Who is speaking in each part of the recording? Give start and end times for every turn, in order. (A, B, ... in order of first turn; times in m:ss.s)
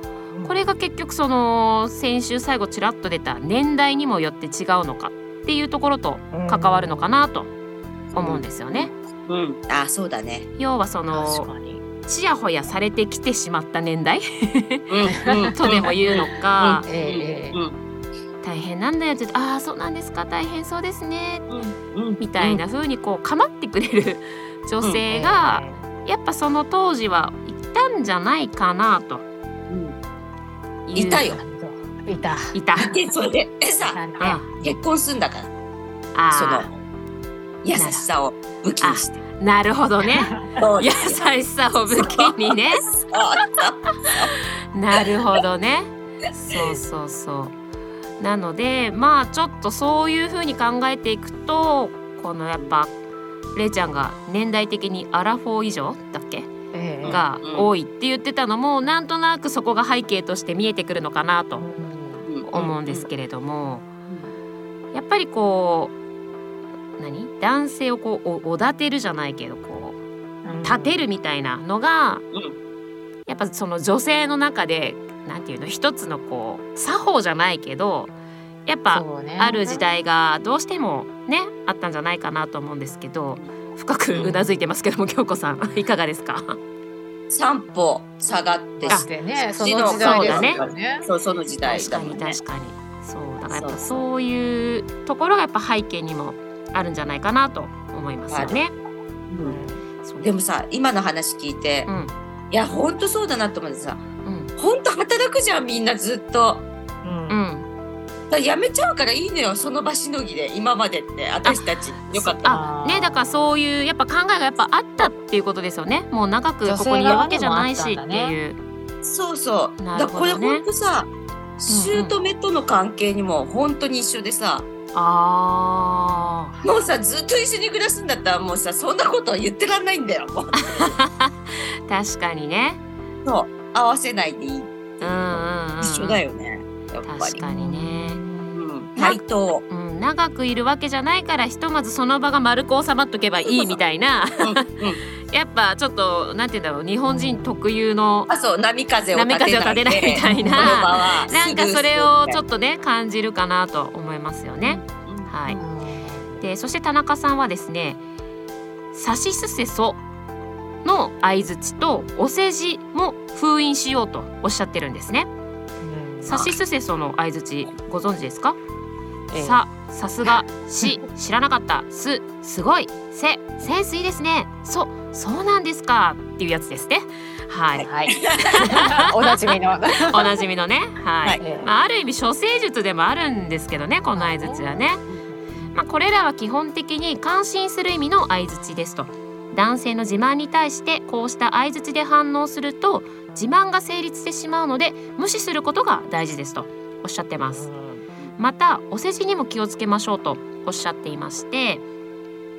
0:00.3-0:00.7 A
0:00.4-0:07.5 B
0:06.3-0:07.2 A
0:08.1-0:08.9 B
0:08.2-0:10.5 C
0:10.6-0:11.5 B
0:11.1-0:11.8 A
0:12.1-0:14.9 B
0:14.9-0:17.8 C
0:15.2-0:15.9 A
0:15.5-0:16.9 B
0:16.9-0:17.6 A
0:18.4-0:21.4 B
0:21.5-0:22.6 C
0:22.2-0:29.2 B
0:25.1-0:25.9 A
0:29.7-0:30.0 C
0:30.9-0:31.4 B
0:30.9-0:31.4 C
0:31.3-0:32.6 A
0:32.5-0:32.9 B
0:32.8-0:35.5 C
0:33.8-0:34.4 A
0:34.2-0:34.5 B
0:36.1-0:36.7 B
0:36.3-0:36.8 C
0:37.6-0:39.2 C
0:37.8-0:38.1 B
0:38.8-0:42.8 B
0:40.2-0:40.5 A
0:40.5-0:41.4 C
0:41.9-0:44.4 C
0:44.7-0:47.5 B
0:48.2-0:52.9 B
0:53.6-0:56.5 B
0:56.7-0:57.2 A
0:57.0-0:57.7 C
0:57.1-1:01.7 B
1:01.6-1:02.3 A
1:02.3-1:03.1 C
1:02.5-1:03.9 B
1:04.1-1:04.3 C
1:04.9-1:06.0 B
1:07.0-1:10.0 B
1:10.4-1:11.1 A
1:10.6-1:12.2 B
1:12.3-1:12.6 C
1:13.3-1:18.1 B
1:18.6-1:26.6 B
1:18.9-1:19.9 A
1:24.1-1:24.5 C
1:27.3-1:32.4 C
1:28.8-1:31.1 A
1:29.9-1:30.6 B
1:31.6-1:38.7 B
1:33.5-1:34.0 C
1:38.3-1:38.6 C
1:39.3-1:39.6 C
1:39.4-1:39.8 A
1:40.2-1:41.9 C
1:41.9-1:42.1 B
1:42.5-1:44.1 C
1:44.2-1:44.5 B
1:44.6-1:46.6 C
1:47.0-1:47.4 A
1:47.3-1:47.7 B
1:48.3-1:52.6 C
1:51.4-1:58.6 B
1:52.5-1:53.5 A
1:56.6-1:58.4 A
1:59.0-2:04.7 C
1:59.8-2:00.6 B
2:04.9-2:06.5 B
2:06.6-2:10.9 C
2:10.6-2:12.8 B
2:13.2-2:17.4 C
2:15.0-2:16.2 B
2:17.0-2:18.2 B
2:17.4-2:18.6 A
2:18.6-2:19.6 C
2:19.0-2:24.4 B
2:23.4-2:23.8 C
2:24.4-2:25.0 C
2:25.3-2:28.3 B
2:27.0-2:27.6 A
2:28.3-2:32.4 C
2:29.1-2:35.6 B
2:30.2-2:30.8 A
2:34.6-2:35.3 C
2:35.5-2:36.5 A
2:36.4-2:38.0 B
2:38.9-2:40.0 B
2:40.8-2:45.3 B
2:45.8-2:46.6 A
2:46.2-2:48.6 B
2:49.3-2:49.6 A
2:49.3-2:57.9 B
2:57.8-3:00.3 A
2:58.1-2:58.7 C
2:58.5-2:59.4 B
3:00.1-3:05.0 B
3:01.4-3:01.7 A
3:04.1-3:04.7 A
3:05.7-3:17.7 B
3:17.5-3:18.0 A
3:18.4-3:21.8 B